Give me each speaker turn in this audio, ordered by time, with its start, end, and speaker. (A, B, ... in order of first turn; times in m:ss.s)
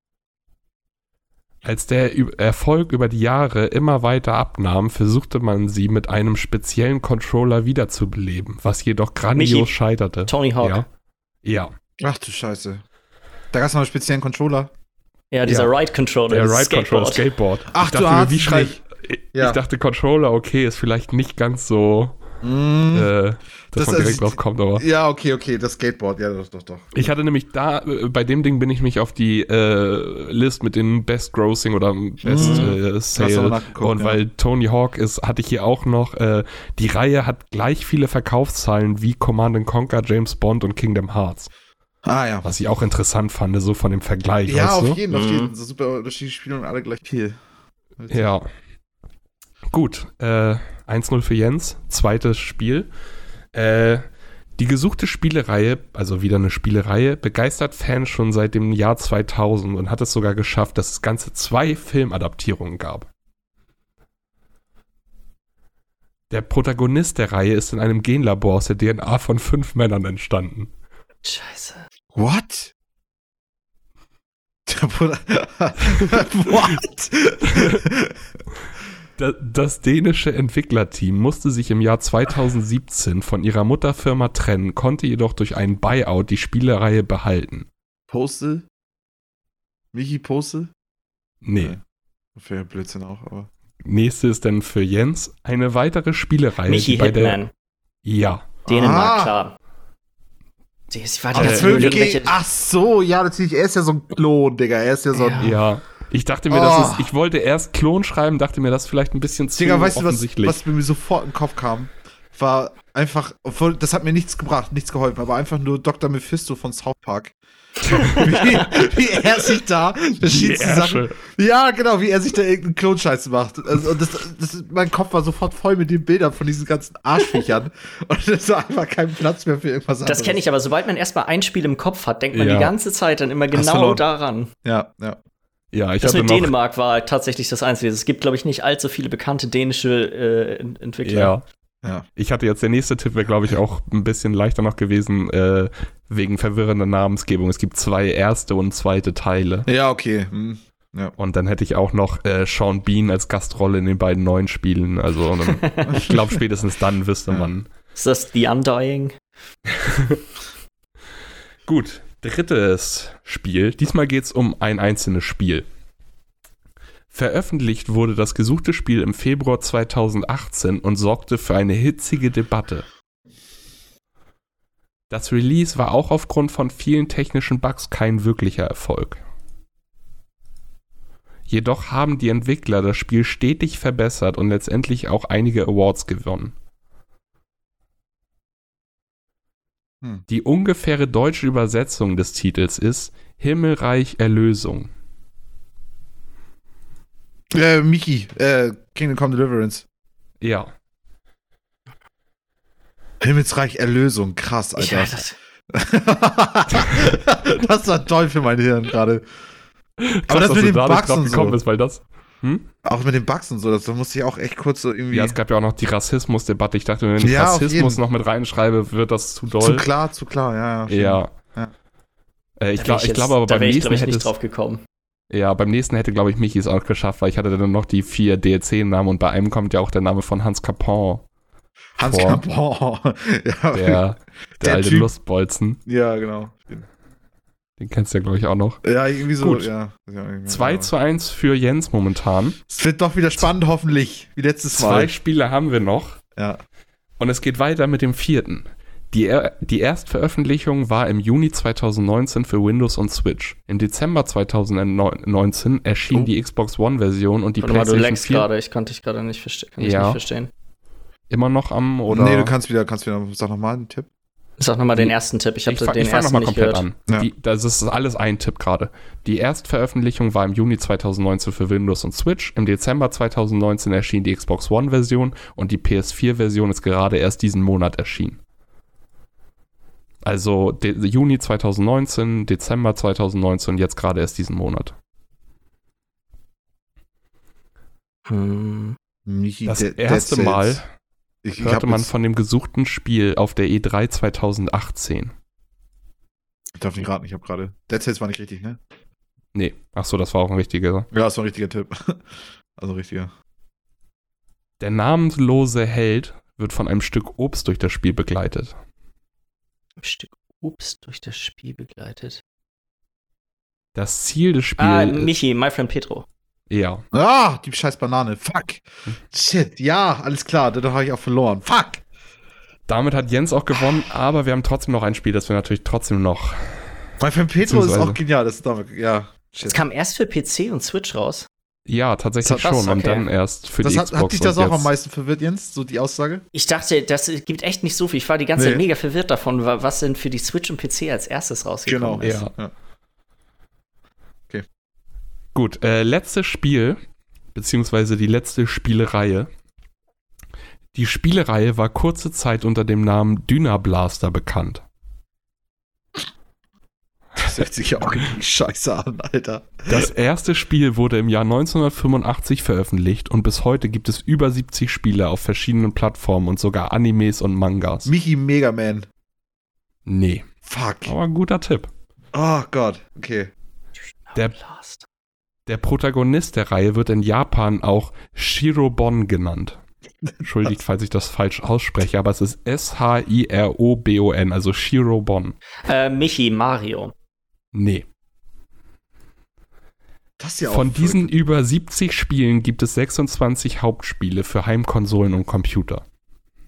0:01.6-0:10.9 A
0:09.3-0:09.7 B
0:10.2-0:10.8 B
0:11.4-0:11.7 A
0:12.0-0:12.8 C
0:13.5-0:14.7 C
0:15.3-0:17.2 B
0:15.5-0:15.7 A
0:16.3-0:22.2 A
0:17.7-0:18.8 C
0:19.3-0:19.6 C
0:22.4-0:23.1 C
0:22.9-0:24.8 A
0:23.7-0:26.9 C
0:26.9-0:41.5 A
0:32.2-0:34.2 C
0:32.4-0:32.7 B
0:42.0-0:42.5 C
0:42.4-0:45.0 A
0:44.5-0:47.4 C
0:45.1-0:45.5 B
0:48.0-0:48.2 C
0:48.1-0:48.5 A
0:49.7-0:52.9 A
0:53.5-0:54.0 A
0:54.6-1:03.1 A
1:06.3-1:10.7 A
1:11.2-1:11.9 B
1:12.2-1:12.7 C
1:14.7-1:18.4 C
1:17.5-1:17.8 A
1:19.2-1:27.7 A
1:28.1-1:28.7 C
1:29.9-1:30.7 C
1:31.4-1:31.8 A
1:32.4-1:33.5 C
1:33.8-1:37.4 A
1:36.7-1:37.5 B
1:38.0-1:38.5 A
1:38.7-1:39.3 C
1:38.7-1:39.6 B
1:40.9-1:42.4 B
1:41.3-1:45.5 C
1:41.4-1:42.0 A
1:45.1-1:45.6 B
1:45.4-1:50.6 A
1:46.5-1:47.1 C
1:49.6-1:57.3 C
1:57.9-2:10.4 C
1:58.0-1:58.3 B
2:00.2-2:01.2 A
2:10.1-2:14.5 B
2:12.3-2:12.7 A
2:13.5-2:14.0 C
2:14.6-2:15.2 C
2:15.7-2:16.5 A
2:16.0-2:21.4 B
2:21.0-2:21.4 A
2:22.2-2:29.7 A
2:29.7-2:31.2 C
2:31.2-2:37.7 A
2:35.6-2:35.9 B
2:35.8-2:36.3 C
2:38.0-2:39.2 B
2:39.9-2:40.2 A
2:41.7-2:45.7 A
2:47.1-2:52.9 A
2:55.1-2:59.2 A
3:01.5-3:06.6 A
3:10.3-3:14.9 A
3:17.5-3:19.9 C
3:20.4-3:20.7 A
3:23.2-3:29.2 C
3:24.8-3:25.4 B
3:26.8-3:27.2 A
3:30.0-3:32.7 A
3:30.3-3:31.6 C
3:32.8-3:35.4 C
3:35.1-3:39.9 A
3:37.2-3:38.0 C
3:39.6-3:41.7 C
3:40.9-3:41.3 A
3:42.6-3:44.3 A
3:42.8-3:44.8 B
3:45.3-3:51.2 A
3:52.0-3:54.0 C
3:52.0-3:52.4 A
3:53.7-3:55.8 A
3:54.6-3:55.1 C
3:55.8-3:56.9 C
3:57.8-3:58.8 A
3:58.8-4:00.9 C
3:59.4-3:59.7 A
4:00.5-4:02.6 A
4:02.7-4:05.2 C
4:04.7-4:06.2 A
4:06.4-4:06.6 C
4:07.2-4:18.5 A
4:17.6-4:20.5 B
4:19.8-4:20.2 A
4:21.3-4:22.5 A
4:22.1-4:24.1 C
4:24.6-4:26.8 B
4:25.7-4:38.4 A
4:40.2-4:45.0 A
4:48.3-4:49.0 B
4:49.2-4:50.8 C
4:49.7-4:50.9 A
4:51.4-4:52.1 C
4:51.6-4:55.3 A
4:56.8-4:58.8 C
4:59.5-5:01.1 A
5:01.1-5:03.3 C
5:04.8-5:08.8 A
5:10.0-5:12.4 B
5:14.0-5:15.3 A
5:14.8-5:16.3 B
5:16.7-5:17.0 A
5:17.1-5:22.0 C
5:22.9-5:27.1 A
5:27.2-5:29.8 C
5:27.6-5:28.2 A
5:29.7-5:31.5 B
5:31.9-5:34.9 A
5:32.4-5:32.7 C
5:32.6-5:33.3 B
5:33.8-5:36.4 C
5:36.5-5:42.3 B
5:38.6-5:38.8 C
5:41.9-5:42.7 C
5:42.2-5:42.5 A
5:45.5-5:47.0 A
5:47.5-5:49.5 A
5:50.9-5:54.8 A
5:57.4-6:00.1 C
5:59.9-6:08.1 A
6:08.0-6:09.1 C
6:10.1-6:10.5 A
6:10.6-6:11.2 C
6:11.1-6:11.9 A
6:12.3-6:13.5 C
6:14.0-6:15.1 B
6:15.7-6:19.8 A
6:20.3-6:20.7 C
6:20.4-6:25.6 A
6:25.8-6:27.1 B
6:27.7-6:28.1 A
6:30.4-6:31.3 C
6:30.7-6:36.0 A